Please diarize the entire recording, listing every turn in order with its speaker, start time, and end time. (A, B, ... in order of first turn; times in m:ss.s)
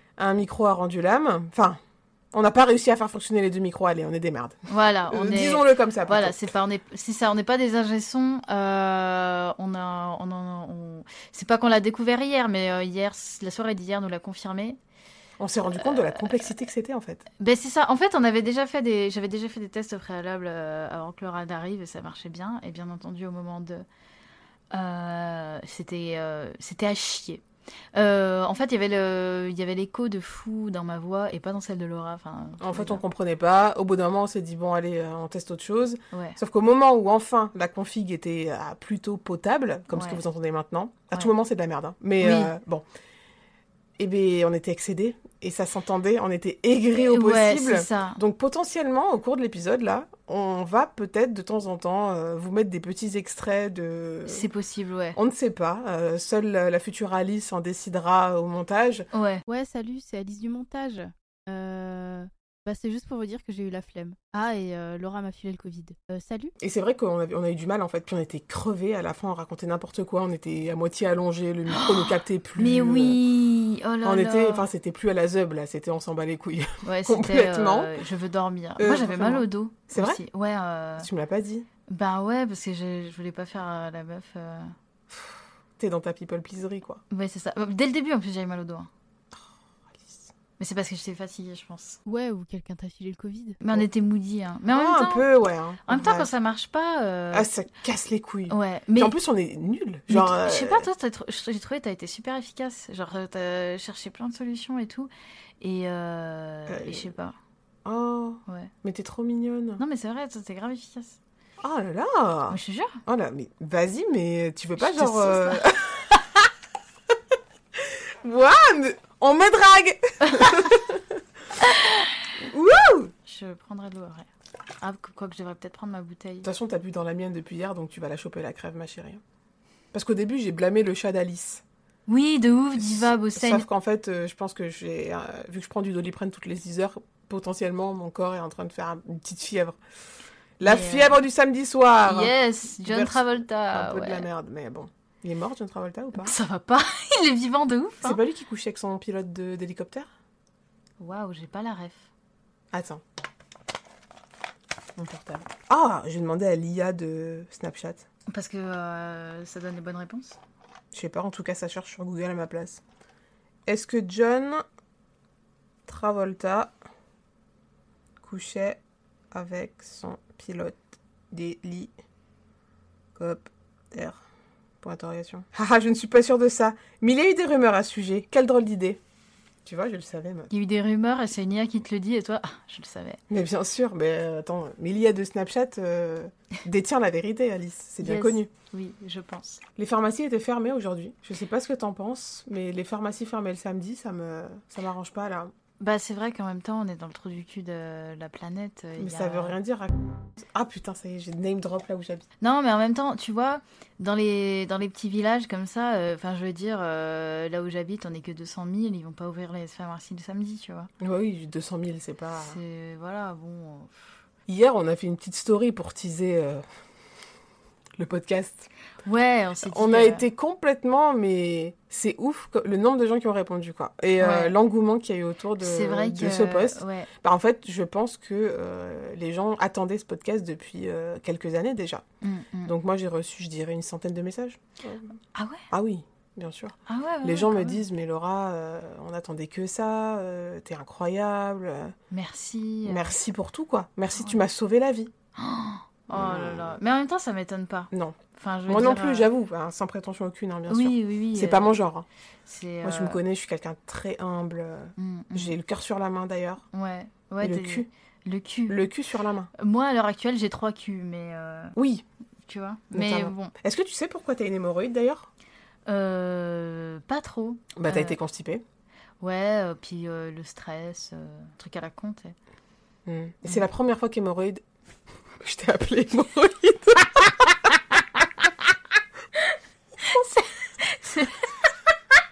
0:00.2-0:01.8 A
0:02.3-0:06.4 A
0:04.7-0:14.8 B
0:15.4-0:17.2 A
0:15.8-0:16.4 B
0:17.4-0:23.8 B
0:24.7-0:27.4 B
0:28.0-0:33.0 B
0:32.6-0:42.8 A
0:36.1-0:36.4 B
0:39.9-0:40.2 B
0:42.2-0:42.5 B
0:44.0-0:54.5 A
0:46.9-0:48.2 B
0:54.3-0:55.2 B
0:55.2-0:59.1 A
0:59.1-0:59.4 B
0:59.5-1:06.5 C
1:06.6-1:13.2 A
1:11.7-1:14.7 B
1:14.0-1:18.0 A
1:16.8-1:21.1 B
1:18.8-1:20.2 A
1:21.0-1:21.7 A
1:21.9-1:24.8 B
1:25.8-1:27.0 A
1:27.1-1:28.9 B
1:30.6-1:32.0 B
1:32.1-1:33.6 C
1:33.6-1:35.3 B
1:34.7-1:36.3 A
1:35.9-1:37.5 B
1:37.3-1:40.9 A
1:38.5-1:39.2 B
1:40.1-1:47.4 B
1:46.7-1:47.1 A
1:47.8-1:49.8 A
1:49.8-1:51.2 B
1:51.6-1:56.4 A
1:52.5-1:53.0 B
1:54.8-1:55.6 B
1:57.8-2:01.1 A
2:00.3-2:00.7 B
2:01.6-2:02.3 B
2:02.4-2:03.1 A
2:03.3-2:04.3 B
2:04.8-2:06.5 B
2:06.4-2:09.2 A
2:09.9-2:11.6 A
2:12.1-2:13.7 B
2:12.8-2:19.8 A
2:20.6-2:26.4 A
2:20.6-2:21.2 B
2:22.1-2:24.3 B
2:26.2-2:28.2 B
2:28.0-2:30.1 A
2:31.0-2:32.1 B
2:32.7-2:33.0 A
2:35.0-2:38.0 A
2:38.3-2:40.4 B
2:40.9-2:42.8 A
2:43.7-2:44.6 A
2:45.9-2:46.7 A
2:48.2-2:48.8 A
2:49.3-2:51.9 A
2:53.2-2:54.2 A
2:54.8-2:59.0 A
2:59.7-3:00.5 A
3:00.5-3:03.2 B
3:03.3-3:08.5 A
3:08.0-3:09.6 B
3:09.8-3:15.5 A
3:15.8-3:19.6 B
3:19.0-3:22.2 A
3:22.4-3:30.9 B
3:31.0-3:32.6 A
3:32.4-3:34.0 B
3:34.5-3:36.6 A
3:38.0-3:38.7 A
3:39.0-3:40.2 B
3:39.6-3:52.0 A
3:44.2-3:44.6 B
3:45.6-3:47.1 B
3:52.2-3:52.7 B
3:52.6-3:55.1 A
3:55.4-3:55.6 B
3:55.7-4:01.9 A
3:56.9-3:57.8 B
4:02.1-4:03.2 B
4:02.8-4:05.1 A
4:05.4-4:09.3 B
4:06.1-4:06.8 A
4:07.9-4:08.2 A
4:08.7-4:12.1 A
4:10.7-4:11.7 B
4:12.5-4:13.2 B
4:12.8-4:16.6 A
4:15.0-4:15.6 B
4:16.7-4:18.8 B
4:17.4-4:17.9 A
4:18.7-4:19.5 A
4:19.6-4:21.8 B
4:21.8-4:22.0 A
4:22.5-4:23.6 B
4:22.9-4:25.3 A
4:25.9-4:28.2 B
4:27.8-4:28.6 A
4:29.2-4:32.4 B
4:33.1-4:34.6 A
4:35.4-4:37.5 A
4:40.0-4:41.9 B